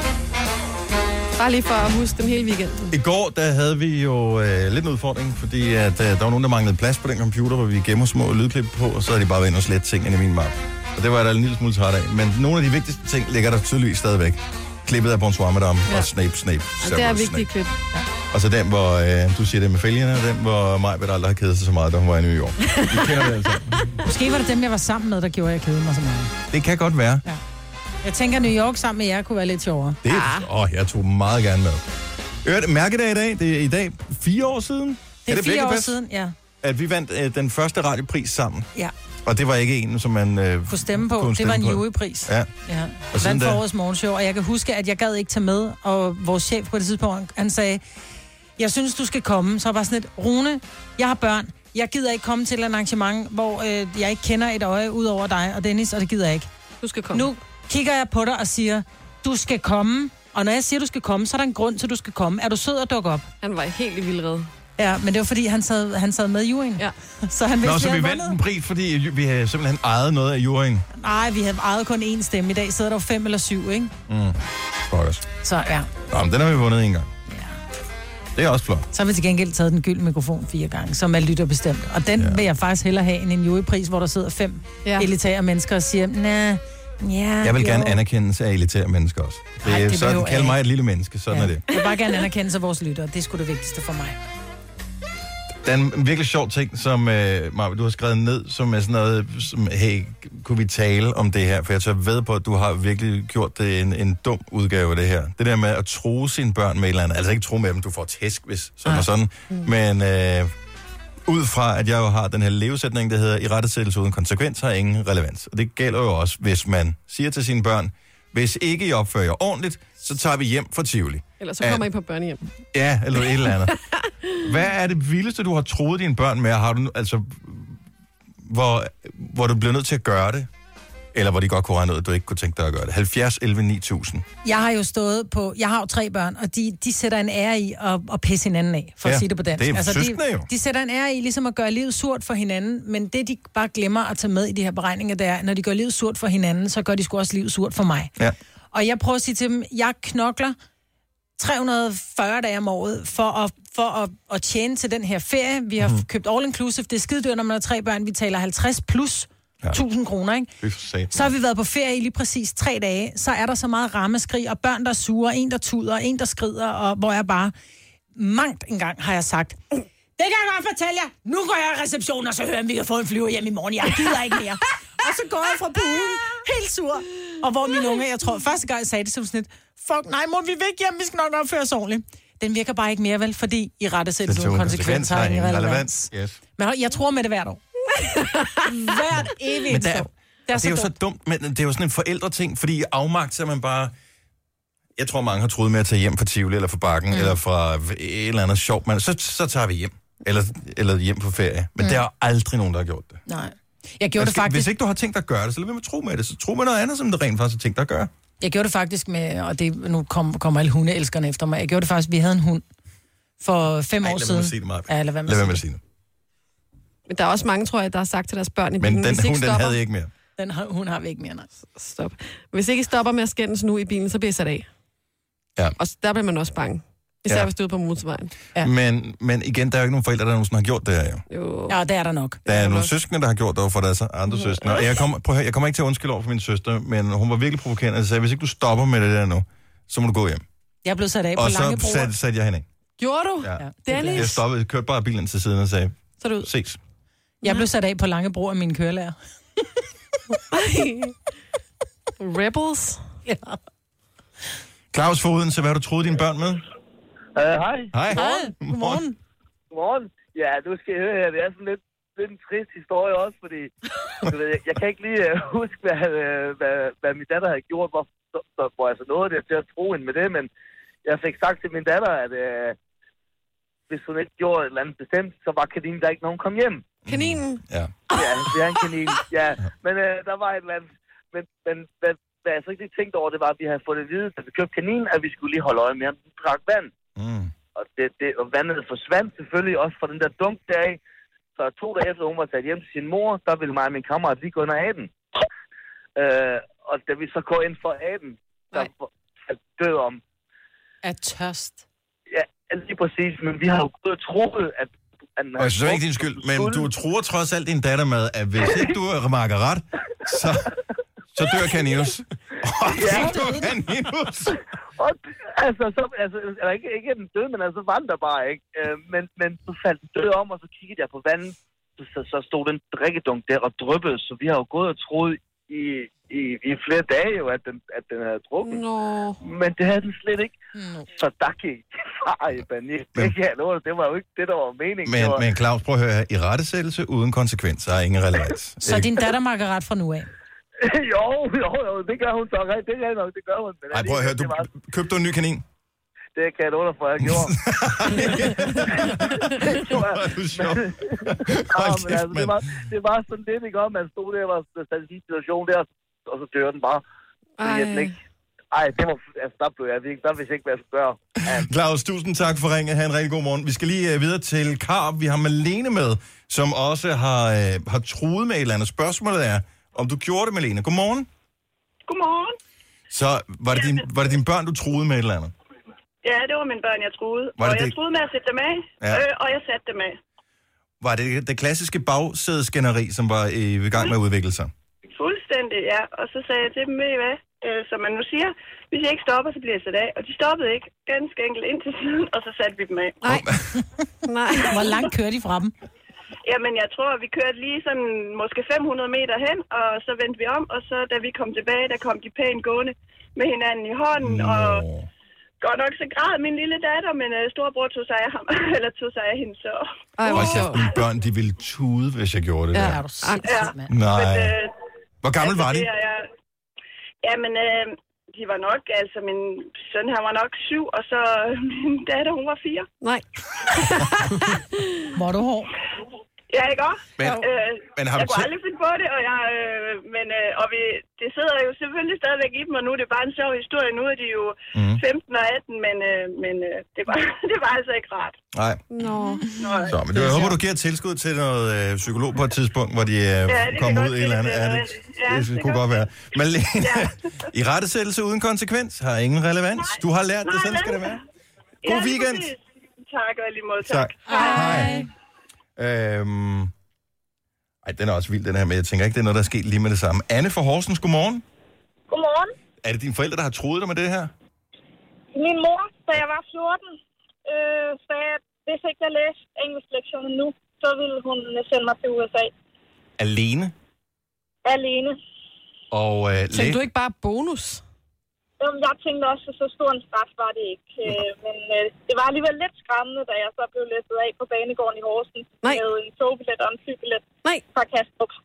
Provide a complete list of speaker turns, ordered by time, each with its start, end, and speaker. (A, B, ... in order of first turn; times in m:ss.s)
0:01.4-0:02.9 A
0:02.9-0:17.5 B
0:16.8-0:17.7 A
0:18.3-0:23.9 B
0:22.7-0:23.3 A
0:24.0-0:26.3 C
0:26.5-0:27.2 B
0:28.0-0:30.0 C
0:30.0-0:31.8 B
0:30.1-0:30.5 A
0:32.4-0:36.0 B
0:35.2-0:36.3 C
0:36.6-0:38.7 B
0:39.2-0:42.5 B
0:40.7-0:47.8 C
0:43.1-0:43.6 B
0:48.6-0:56.5 C
0:56.8-0:57.2 A
0:57.1-1:03.2 C
1:03.4-1:04.5 A
1:04.8-1:08.4 C
1:07.6-1:10.8 B
1:10.9-1:13.9 C
1:14.1-1:15.2 B
1:15.4-1:15.9 C
1:16.1-1:17.1 B
1:17.3-1:17.5 C
1:18.3-1:18.9 B
1:18.9-1:28.0 C
1:22.2-1:22.4 B
1:27.4-1:31.6 B
1:29.6-1:30.6 C
1:31.3-1:34.2 C
1:35.6-1:50.5 B
1:51.2-2:01.8 B
2:01.4-2:02.4 A
2:02.7-2:03.8 B
2:03.7-2:04.1 A
2:04.4-2:07.8 B
2:08.4-2:10.5 B
2:11.1-2:14.2 B
2:14.4-2:28.1 C
2:19.0-2:20.5 B
2:28.7-2:30.6 C
2:31.4-2:40.5 C
2:40.6-2:41.3 B
2:41.1-2:47.5 C
2:48.2-2:49.6 C
2:50.2-3:07.6 C
3:04.2-3:06.4 B
3:07.9-3:08.6 A
3:08.6-3:10.9 C
3:09.7-3:13.9 B
3:15.0-3:23.2 B
3:17.1-3:17.4 C
3:23.3-3:24.7 C
3:24.2-3:28.1 B
3:28.4-3:32.6 C
3:33.4-3:35.6 C
3:34.0-3:35.8 B
3:37.1-3:39.8 A
3:38.8-3:40.1 B
3:40.4-3:41.5 C
3:41.7-3:44.7 A
3:45.8-3:48.3 A
3:48.6-3:51.2 B
3:51.3-3:51.8 A
3:51.7-3:52.4 C
3:52.4-4:00.4 B
3:52.5-3:52.9 A
3:54.3-3:54.8 A
4:00.8-4:02.1 C
4:01.4-4:02.6 B
4:03.0-4:04.4 A
4:03.4-4:06.8 B
4:03.6-4:04.3 C
4:06.2-4:06.5 A
4:07.4-4:09.1 C
4:10.5-4:11.2 A
4:12.2-4:13.0 A
4:13.2-4:13.6 C
4:14.9-4:16.6 B
4:17.3-4:18.0 D
4:17.9-4:19.0 B
4:18.1-4:19.2 C
4:19.7-4:30.5 D
4:31.0-4:32.8 D
4:33.9-4:37.0 D
4:37.0-4:38.0 B
4:37.1-4:37.6 A
4:38.1-4:46.9 D
4:47.2-4:47.5 B
4:47.8-4:51.0 D
4:51.6-4:55.1 D
4:56.2-5:00.2 D
5:01.0-5:01.8 C
5:02.3-5:06.9 D
5:05.6-5:10.7 B
5:11.3-5:14.6 B
5:12.9-5:13.5 D
5:13.1-5:13.7 C
5:15.0-5:28.8 D
5:28.6-5:29.4 A
5:29.4-5:30.6 D
5:30.8-5:31.0 C
5:31.1-5:35.4 D
5:35.0-5:39.1 B
5:38.8-5:40.3 C
5:40.8-5:44.7 D
5:43.9-5:45.6 B
5:46.4-5:47.6 D
5:47.2-5:52.6 B
5:48.2-5:57.0 D
5:57.6-5:58.1 A
5:57.6-5:58.1 D
5:58.7-6:01.7 D
6:01.5-6:11.3 B
6:12.1-6:12.6 E
6:13.1-6:15.5 B
6:16.2-6:20.2 E
6:17.6-6:18.0 B
6:21.0-6:24.7 B
6:25.1-6:33.2 E
6:33.2-6:33.5 A
6:33.2-6:33.6 B
6:34.2-6:35.0 A
6:34.6-6:35.7 C
6:36.5-6:44.8 E
6:44.2-6:45.1 B
6:45.6-6:50.6 E
6:50.2-6:50.8 A
6:50.3-6:53.0 B
6:52.7-6:53.5 A
6:52.7-6:53.9 C
6:53.4-6:54.7 E
6:53.9-6:54.6 B
6:55.2-6:55.9 B
6:55.4-6:56.3 E
6:57.2-7:02.9 E
7:03.0-7:04.6 A
7:05.1-7:05.7 C
7:06.5-7:18.4 E
7:07.2-7:08.5 B
7:14.7-7:15.0 B
7:18.5-7:18.8 B
7:18.9-7:19.5 A
7:19.6-7:19.9 E
7:19.9-7:31.2 B
7:20.1-7:20.6 C
7:23.5-7:26.0 E
7:26.8-7:27.1 E
7:30.4-7:31.2 E
7:31.8-7:34.8 E
7:31.8-7:32.5 B
7:33.8-7:35.0 B
7:34.2-7:35.1 C
7:35.8-7:36.7 B
7:37.8-7:41.4 B
7:42.1-7:42.5 F
7:42.8-7:44.3 B
7:45.3-7:46.9 F
7:47.4-7:52.5 F
7:53.2-7:53.7 B
7:54.6-7:55.2 F
7:55.9-7:56.8 B
7:56.5-7:57.8 A
7:58.6-8:08.3 F